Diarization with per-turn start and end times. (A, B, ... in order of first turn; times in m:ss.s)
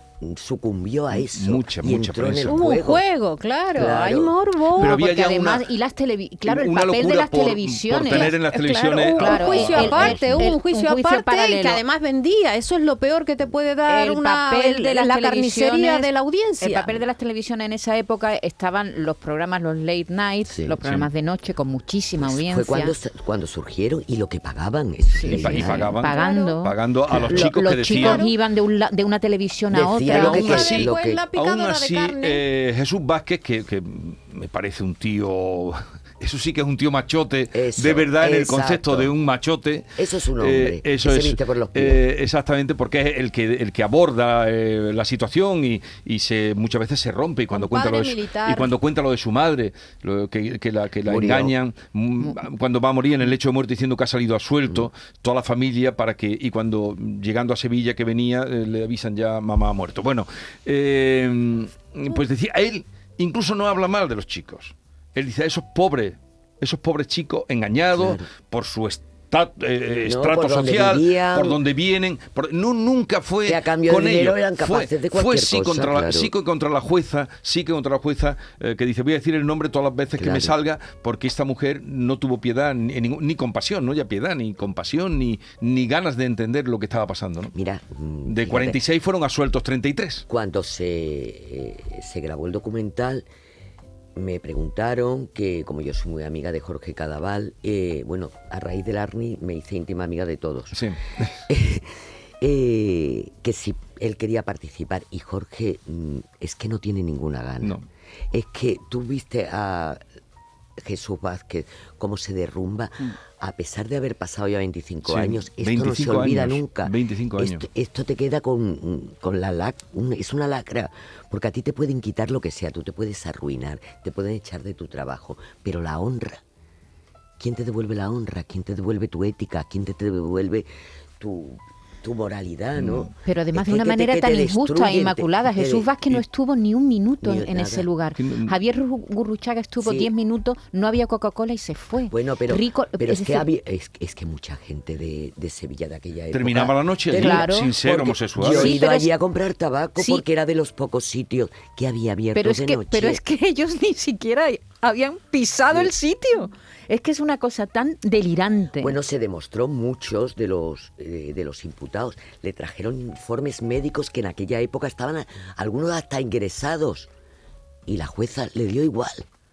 0:00.2-0:03.0 A
0:01.1-0:02.6 B
0:02.5-0:05.0 C
0:03.8-0:04.3 A
0:04.8-0:05.7 B
0:04.8-0:08.3 D
0:06.5-0:10.5 B
0:08.0-0:17.0 C
0:09.2-0:11.8 D
0:13.9-0:16.1 D
0:16.6-0:22.9 D
0:20.5-0:20.8 A
0:20.8-0:21.1 B
0:22.2-0:25.9 A
0:25.1-0:26.8 D
0:25.2-0:28.2 B
0:26.0-0:26.6 C
0:27.1-0:27.5 A
0:27.3-0:30.6 D
0:27.9-0:28.3 C
0:29.7-0:31.2 A
0:30.1-0:32.4 C
0:30.1-1:27.5 B
0:37.5-0:39.1 A
0:40.0-0:42.0 A
0:47.5-0:48.7 C
0:51.0-0:51.5 A
1:07.9-1:08.3 A
1:09.9-1:11.6 A
1:13.4-1:16.3 A
1:20.2-1:20.5 A
1:27.5-1:28.8 A
1:28.3-1:30.2 B
1:30.3-1:33.2 A
1:34.1-1:40.8 A
1:40.8-1:41.4 B
1:41.5-1:47.8 A
1:48.3-1:50.0 A
1:50.8-2:06.4 A
1:55.1-1:57.6 B
2:07.4-2:10.7 A
2:11.2-2:15.9 A
2:12.8-2:13.1 B
2:13.2-2:23.5 D
2:17.2-2:17.9 A
2:18.2-2:18.5 B
2:19.8-2:20.1 A
2:22.1-2:33.2 A
2:26.3-2:28.8 B
2:27.2-2:27.7 D
2:28.4-2:29.1 D
2:30.0-2:30.2 D
2:32.4-2:39.0 D
2:38.8-2:47.1 A
2:47.9-2:49.3 A